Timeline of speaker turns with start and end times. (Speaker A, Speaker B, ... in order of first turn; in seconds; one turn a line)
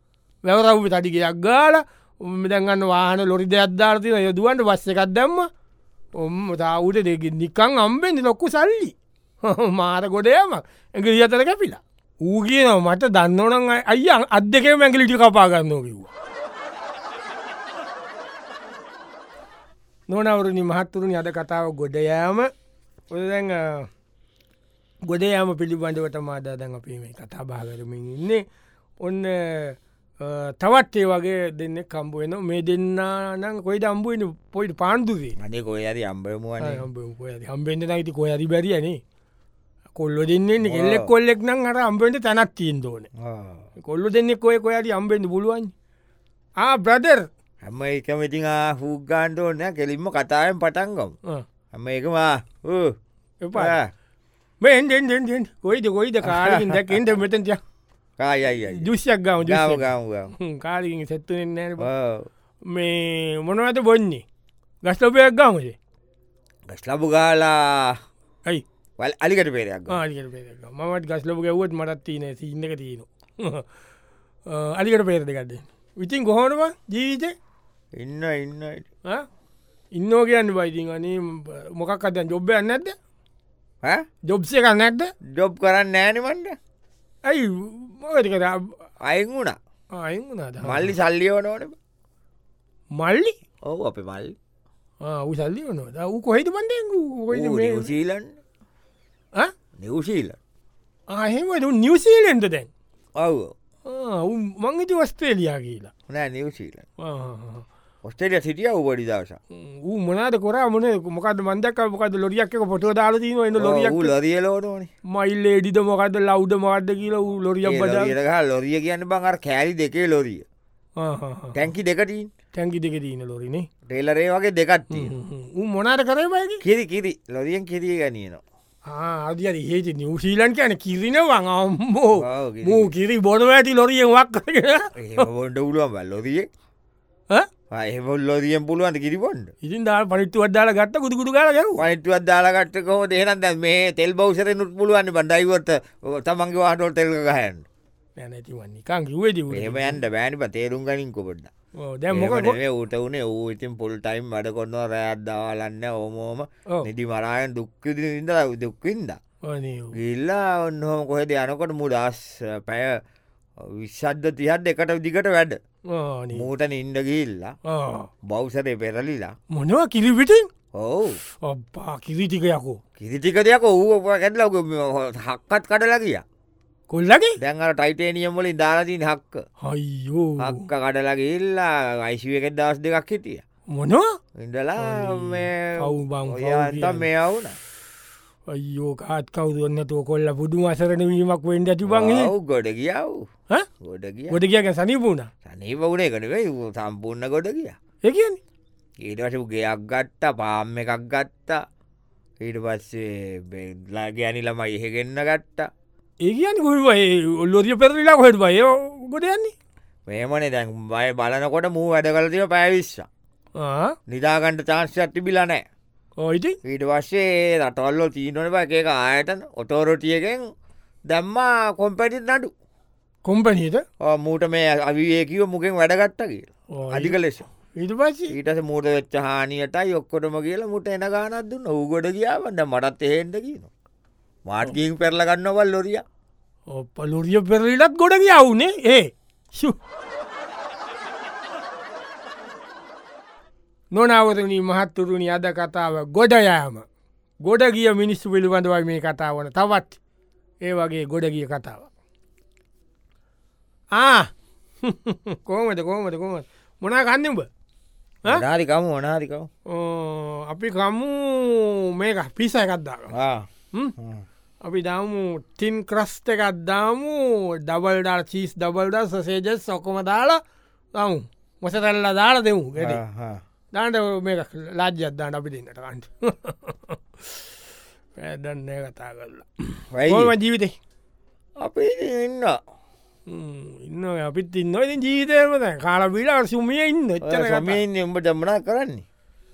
Speaker A: 0.4-5.5
Speaker A: 6.2-16.1
Speaker A: 20.1-22.5
Speaker A: 23.1-23.9
Speaker A: 25.1-28.4
Speaker A: 29.0-35.4
Speaker B: 35.4-36.9
Speaker A: 36.6-39.0
Speaker A: 40.0-43.1
Speaker B: 40.6-41.1
Speaker B: 43.2-43.6
Speaker A: 43.8-45.7
Speaker A: 46.6-47.3
Speaker B: 47.6-51.1
Speaker B: 51.7-52.9
Speaker A: 53.4-53.8
Speaker B: 53.5-53.9
Speaker A: 54.6-57.6
Speaker B: 56.2-57.0
Speaker B: 58.2-58.9
Speaker A: 58.7-61.9
Speaker B: 59.4-60.3
Speaker B: 61.8-62.3
Speaker A: 62.7-64.2
Speaker A: 64.8-65.8
Speaker B: 66.7-68.0
Speaker B: 69.0-70.0
Speaker A: 69.9-73.7
Speaker A: 74.5-77.3
Speaker B: 78.0-78.9
Speaker A: 79.9-82.9
Speaker A: 84.2-85.1
Speaker B: 85.3-86.6
Speaker A: 87.2-88.8
Speaker B: 89.0-89.6
Speaker A: 90.0-90.9
Speaker B: 90.6-91.7
Speaker A: 93.0-93.3
Speaker B: 93.6-94.3
Speaker A: 95.0-97.9
Speaker B: 97.3-98.3
Speaker B: 99.8-100.4
Speaker A: 101.1-102.7
Speaker B: 103.2-103.5
Speaker A: 103.8-105.9
Speaker B: 106.1-106.8
Speaker A: 107.0-107.6
Speaker B: 108.0-109.4
Speaker A: 109.5-114.1
Speaker B: 113.5-114.9
Speaker A: 115.1-118.1
Speaker B: 117.6-120.4
Speaker A: 121.0-121.6
Speaker B: 121.5-122.3
Speaker A: 122.5-123.7
Speaker B: 123.9-125.1
Speaker A: 124.9-126.6
Speaker B: 126.6-128.4
Speaker A: 128.9-135.2
Speaker B: 132.2-132.9
Speaker B: 135.0-136.5
Speaker B: 137.7-139.5
Speaker A: 139.6-141.8
Speaker B: 141.8-147.7
Speaker A: 148.2-150.0
Speaker B: 149.5-151.5
Speaker A: 151.8-152.6
Speaker B: 152.1-159.2
Speaker A: 159.5-159.9
Speaker B: 159.9-163.0
Speaker B: 163.6-165.6
Speaker A: 165.9-166.5
Speaker B: 166.3-167.5
Speaker A: 167.7-168.1
Speaker B: 168.3-169.3
Speaker A: 169.5-170.5
Speaker B: 170.7-171.2
Speaker A: 171.4-172.8
Speaker B: 173.0-176.2
Speaker A: 176.9-177.4
Speaker B: 177.4-179.4
Speaker A: 179.6-180.7
Speaker B: 180.4-183.4
Speaker A: 183.7-184.2
Speaker B: 184.4-187.6
Speaker A: 184.8-187.1
Speaker A: 188.5-192.3
Speaker B: 191.9-193.3
Speaker B: 193.8-194.4
Speaker A: 194.3-195.3
Speaker B: 195.4-197.8
Speaker A: 198.0-198.4
Speaker B: 199.0-201.6
Speaker B: 202.4-205.7
Speaker A: 206.2-209.5
Speaker B: 210.1-213.1
Speaker A: 213.6-213.9
Speaker B: 214.1-215.6
Speaker A: 216.2-216.6
Speaker B: 216.6-220.4
Speaker B: 221.1-222.5
Speaker A: 223.2-223.8
Speaker B: 224.0-227.5
Speaker A: 226.7-227.2
Speaker A: 227.7-228.3
Speaker B: 228.3-233.7
Speaker B: 234.4-236.0
Speaker A: 236.7-239.8
Speaker A: 243.9-246.8
Speaker A: 247.4-250.0
Speaker A: 250.6-251.9
Speaker A: 253.9-254.3
Speaker A: 254.8-257.5
Speaker B: 258.2-259.5
Speaker A: 259.7-263.1
Speaker B: 263.1-263.5
Speaker B: 264.0-264.2
Speaker A: 264.6-270.4
Speaker A: 270.9-273.0
Speaker B: 272.8-273.4
Speaker A: 273.7-277.5
Speaker A: 278.2-280.7
Speaker B: 279.9-280.3
Speaker B: 281.6-282.6
Speaker A: 283.3-287.8
Speaker B: 287.2-289.0